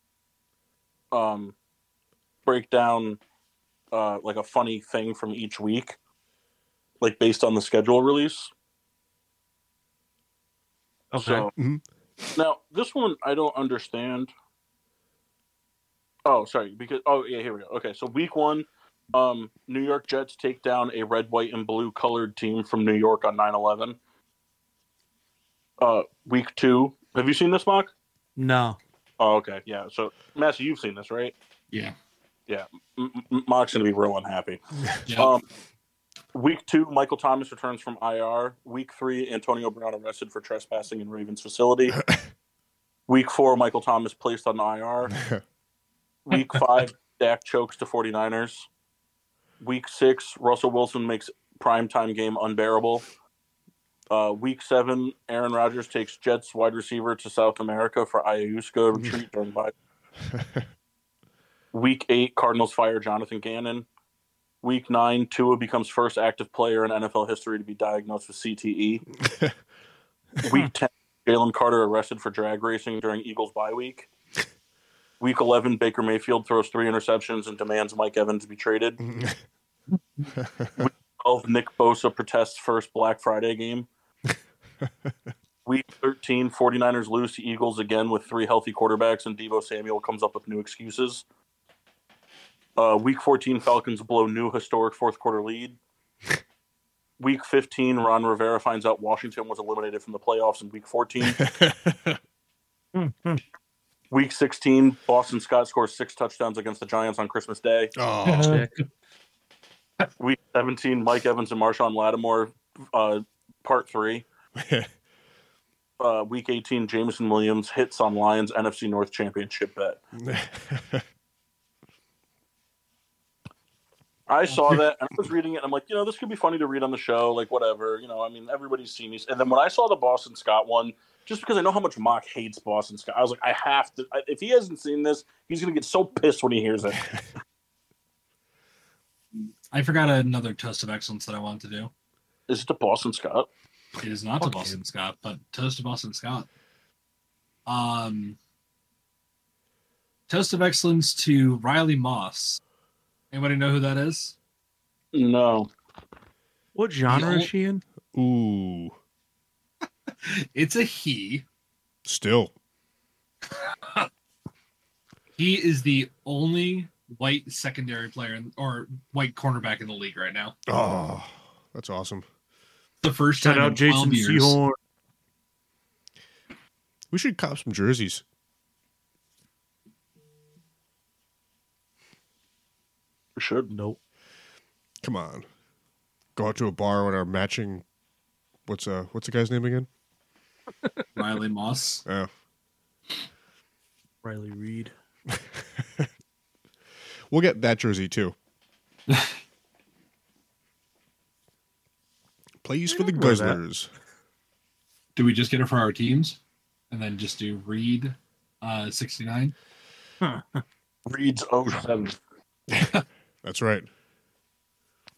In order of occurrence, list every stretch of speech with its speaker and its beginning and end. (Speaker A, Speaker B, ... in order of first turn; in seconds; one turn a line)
Speaker A: 1.1-1.5
Speaker A: 2.5-3.2
Speaker A: 3.9-6.0
Speaker A: 7.0-8.5
Speaker B: 11.1-11.5
Speaker A: 11.2-11.5
Speaker C: 11.6-11.8
Speaker A: 12.4-14.3
Speaker A: 16.2-24.0
Speaker A: 25.8-27.9
Speaker B: 28.4-28.8
Speaker A: 29.2-31.3
Speaker A: 32.5-34.6
Speaker D: 35.1-35.3
Speaker A: 35.1-35.4
Speaker A: 36.3-42.0
Speaker A: 43.1-45.1
Speaker C: 45.1-45.4
Speaker A: 46.3-48.7
Speaker A: 49.6-53.0
Speaker A: 54.1-59.7
Speaker C: 60.3-60.6
Speaker A: 61.7-63.9
Speaker A: 64.6-69.1
Speaker C: 69.2-69.5
Speaker A: 70.4-74.1
Speaker A: 75.2-79.0
Speaker C: 79.0-79.4
Speaker C: 80.4-80.8
Speaker A: 80.8-83.9
Speaker C: 84.8-85.1
Speaker A: 85.7-91.2
Speaker A: 92.8-95.8
Speaker A: 97.2-101.4
Speaker C: 101.2-102.2
Speaker B: 103.0-103.4
Speaker A: 104.1-107.9
Speaker C: 108.0-108.6
Speaker D: 108.2-108.7
Speaker A: 110.2-114.3
Speaker C: 114.6-114.9
Speaker A: 116.0-120.0
Speaker C: 120.2-121.0
Speaker A: 124.3-137.0
Speaker D: 139.7-141.9
Speaker A: 142.5-143.5
Speaker D: 144.0-146.5
Speaker B: 144.4-144.8
Speaker D: 147.7-148.4
Speaker D: 150.3-152.6
Speaker D: 153.3-154.4
Speaker A: 155.1-155.7
Speaker B: 156.8-157.8
Speaker D: 157.1-157.5
Speaker C: 158.1-159.0
Speaker D: 160.1-161.4
Speaker C: 162.1-162.5
Speaker D: 165.4-170.6
Speaker C: 170.7-172.2
Speaker D: 173.0-174.6
Speaker B: 173.4-174.8
Speaker C: 177.1-178.2
Speaker A: 183.4-183.7
Speaker B: 183.7-184.0
Speaker C: 185.0-185.5
Speaker C: 186.4-187.8
Speaker C: 188.7-189.9
Speaker D: 191.1-192.1
Speaker B: 194.2-194.9
Speaker C: 195.3-196.1
Speaker C: 197.3-198.3
Speaker D: 199.1-199.4
Speaker C: 202.6-203.9
Speaker B: 202.9-203.6
Speaker D: 205.2-206.4
Speaker D: 206.9-209.5
Speaker B: 210.2-210.6
Speaker A: 211.1-212.1
Speaker C: 213.4-213.9